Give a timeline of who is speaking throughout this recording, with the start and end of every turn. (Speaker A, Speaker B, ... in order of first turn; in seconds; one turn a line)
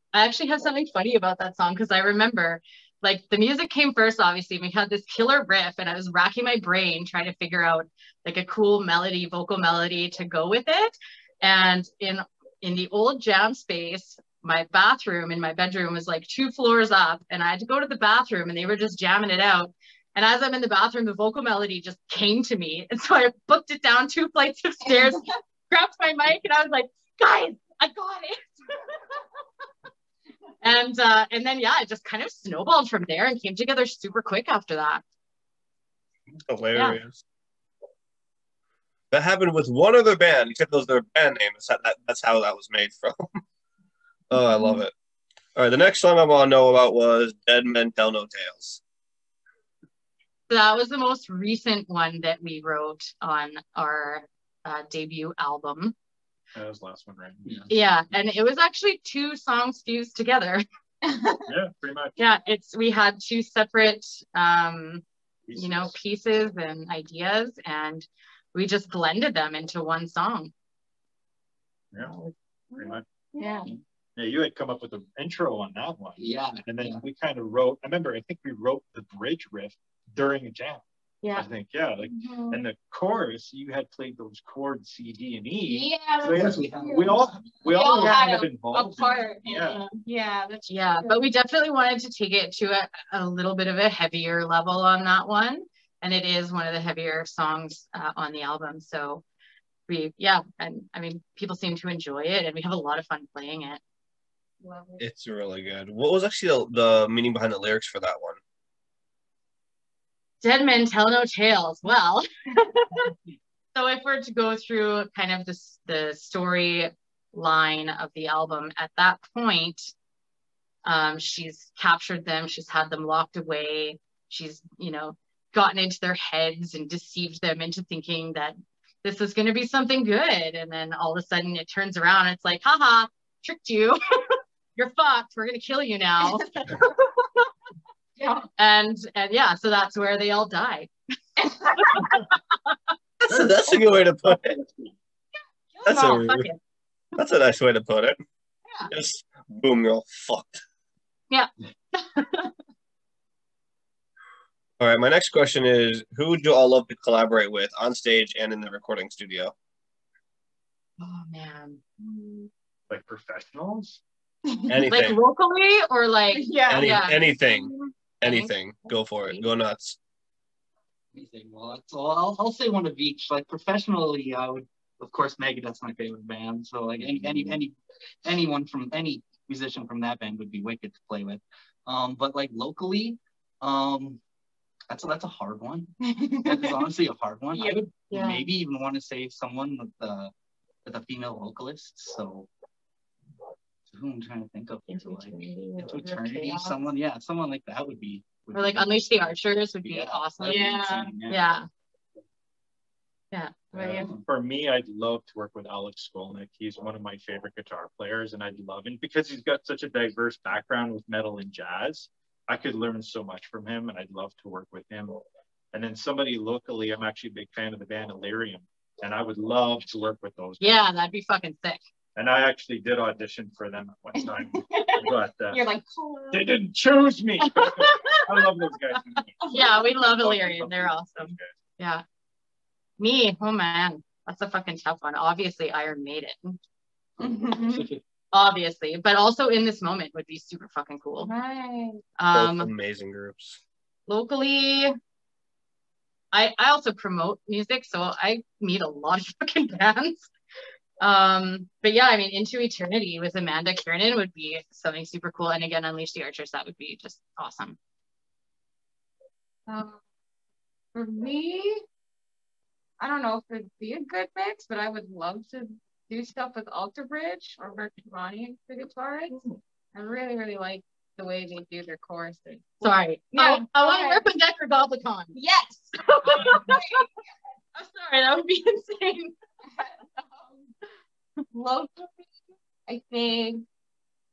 Speaker A: 0.1-28.6
Speaker B: 24.9-25.2
Speaker A: 30.6-35.0
Speaker C: 36.4-37.2
Speaker A: 36.7-37.0
Speaker C: 39.1-43.4
Speaker C: 44.3-44.9
Speaker C: 45.5-48.8
Speaker A: 50.5-55.9
Speaker D: 56.5-57.7
Speaker A: 57.7-60.6
Speaker B: 61.0-61.5
Speaker D: 61.5-62.1
Speaker A: 62.2-70.5
Speaker D: 65.5-65.9
Speaker D: 71.9-72.2
Speaker B: 72.7-73.7
Speaker D: 72.8-73.0
Speaker D: 74.2-89.8
Speaker E: 76.2-77.0
Speaker A: 81.2-81.5
Speaker B: 82.1-82.6
Speaker B: 85.6-87.2
Speaker E: 86.2-88.2
Speaker B: 87.7-91.2
Speaker A: 90.7-99.2
Speaker A: 99.9-103.8
Speaker B: 104.6-105.1
Speaker C: 105.0-108.4
Speaker A: 110.4-113.1
Speaker A: 113.7-119.9
Speaker A: 120.8-136.5
Speaker B: 136.3-136.9
Speaker B: 138.2-138.5
Speaker A: 138.6-140.9
Speaker B: 141.4-142.3
Speaker A: 141.8-142.8
Speaker C: 143.2-144.6
Speaker A: 145.8-146.6
Speaker C: 145.8-146.5
Speaker C: 147.2-148.2
Speaker C: 148.9-150.6
Speaker A: 151.3-152.5
Speaker C: 154.8-159.5
Speaker A: 161.0-162.1
Speaker B: 162.1-162.4
Speaker D: 162.9-164.0
Speaker B: 164.5-164.9
Speaker C: 164.7-165.2
Speaker A: 164.9-167.2
Speaker B: 166.3-167.9
Speaker C: 166.7-170.0
Speaker A: 168.2-168.5
Speaker E: 171.1-184.2
Speaker D: 177.0-177.6
Speaker E: 184.9-185.9
Speaker B: 186.0-186.9
Speaker E: 186.4-190.3
Speaker B: 187.5-188.4
Speaker A: 188.1-188.4
Speaker E: 190.8-192.5
Speaker E: 193.9-201.5
Speaker B: 194.9-196.7
Speaker A: 195.7-196.7
Speaker A: 198.5-200.8
Speaker B: 200.4-201.2
Speaker A: 201.3-201.7
Speaker A: 203.3-204.1
Speaker D: 203.7-220.9
Speaker E: 203.9-204.2
Speaker A: 220.6-221.8
Speaker D: 222.2-225.6
Speaker B: 224.1-226.6
Speaker D: 226.3-231.5
Speaker A: 227.4-228.2
Speaker B: 229.4-230.0
Speaker A: 229.5-232.0
Speaker A: 233.0-236.6
Speaker B: 237.2-237.9
Speaker A: 238.3-241.3
Speaker B: 241.2-242.0
Speaker A: 242.2-242.7
Speaker C: 242.3-243.6
Speaker A: 244.1-244.9
Speaker A: 246.3-250.3
Speaker A: 251.0-257.8
Speaker B: 259.7-260.0
Speaker B: 260.9-261.8
Speaker B: 263.0-269.4
Speaker B: 269.9-274.2
Speaker A: 272.8-275.3
Speaker B: 275.3-277.1
Speaker A: 276.2-277.0
Speaker A: 277.7-279.4
Speaker B: 279.6-280.7
Speaker B: 281.5-282.3
Speaker B: 282.9-283.6